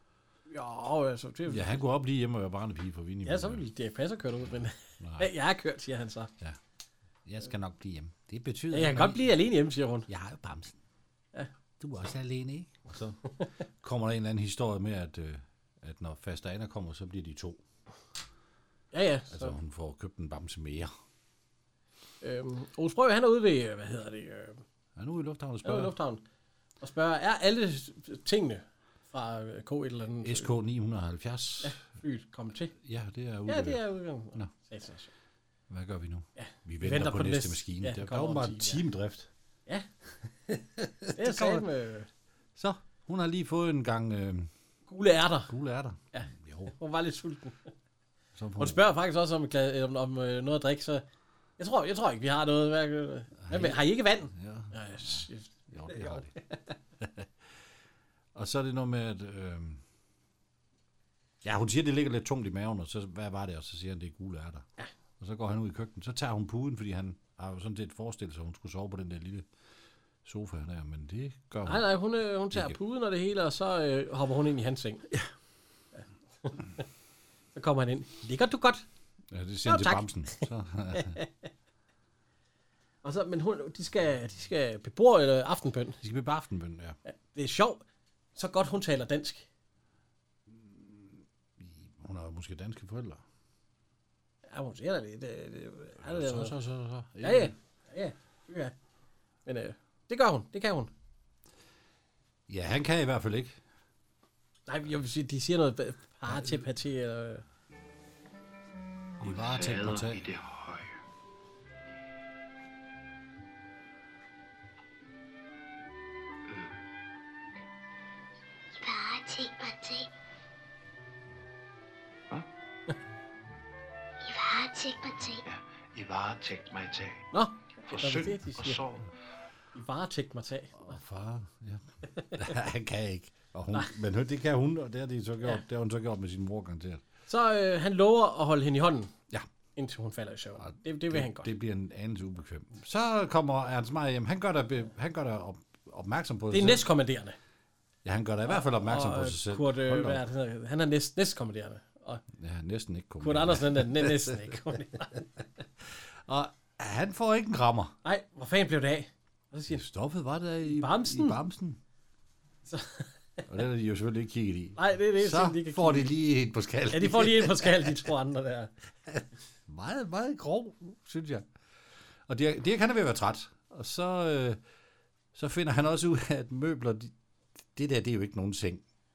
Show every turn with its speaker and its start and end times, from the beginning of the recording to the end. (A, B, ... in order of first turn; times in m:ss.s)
0:00.5-0:01.8 A
0:01.5-0:03.6 B
0:03.2-0:06.3 A
0:05.0-0:05.3 B
0:07.2-0:09.3 B
0:08.7-0:10.1 A
0:10.1-0:10.8 B
0:11.8-0:13.2 B
0:13.8-0:17.6 B
0:18.9-0:19.5 A
0:19.3-0:20.9 B
0:22.2-0:24.6 A
0:25.0-0:25.9 B
0:25.6-0:26.2 A
0:26.8-0:30.5 A
0:30.2-0:31.8 B
0:31.6-0:32.7 A
0:32.8-0:34.5 B
0:33.5-0:35.1 A
0:35.7-0:39.3 B
0:36.4-0:38.8 A
0:40.5-0:41.6 B
0:41.1-0:42.1 A
0:42.6-0:44.5 B
0:44.9-0:45.5 A
0:45.5-0:46.7 B
0:46.1-0:47.7 A
0:48.4-0:48.8 B
0:48.6-0:51.0 A
0:51.6-0:56.7 A
0:53.4-0:56.3 B
0:57.0-0:57.3 B
0:58.3-0:59.8 B
1:01.4-1:04.7 B
1:05.2-1:09.5 B
1:10.2-1:11.9 B
1:11.6-1:15.1 A
1:12.5-1:12.8 B
1:16.0-1:16.8 A
1:17.5-1:18.8 A
1:19.3-1:21.2 B
1:19.6-1:21.3 A
1:23.0-1:26.0 A
1:26.0-1:27.0 B
1:27.1-1:27.8 A
1:28.4-1:29.5 A
1:30.5-1:33.2 B
1:34.5-1:36.6 A
1:36.0-1:37.5 B
1:37.2-1:38.7 A
1:39.4-1:40.9 A
1:42.5-1:43.6 B
1:44.7-1:47.4 A
1:46.3-1:46.6 B
1:49.2-1:50.3 B
1:49.2-1:50.9 C
1:58.8-2:00.1 D
2:04.2-2:05.4 D
2:05.4-2:07.2 C
2:07.3-2:08.8 A
2:07.9-2:09.1 C
2:09.7-2:11.0 A
2:10.8-2:17.0 B
2:12.1-2:12.5 A
2:17.3-2:19.1 A
2:19.8-2:21.5 A
2:20.6-2:26.8 B
2:26.5-2:27.4 A
2:28.0-2:30.2 B
2:28.5-2:32.2 A
2:32.3-2:34.6 B
2:33.2-2:35.3 A
2:35.8-2:38.0 B
2:38.0-2:39.8 A
2:39.7-2:41.8 B
2:40.7-2:41.4 A
2:42.7-2:43.4 A
2:43.5-2:48.0 B
2:44.8-2:46.1 A
2:46.9-2:48.7 A
2:49.1-2:51.4 B
2:52.3-2:54.6 B
2:55.3-2:57.1 B
2:57.7-2:58.8 B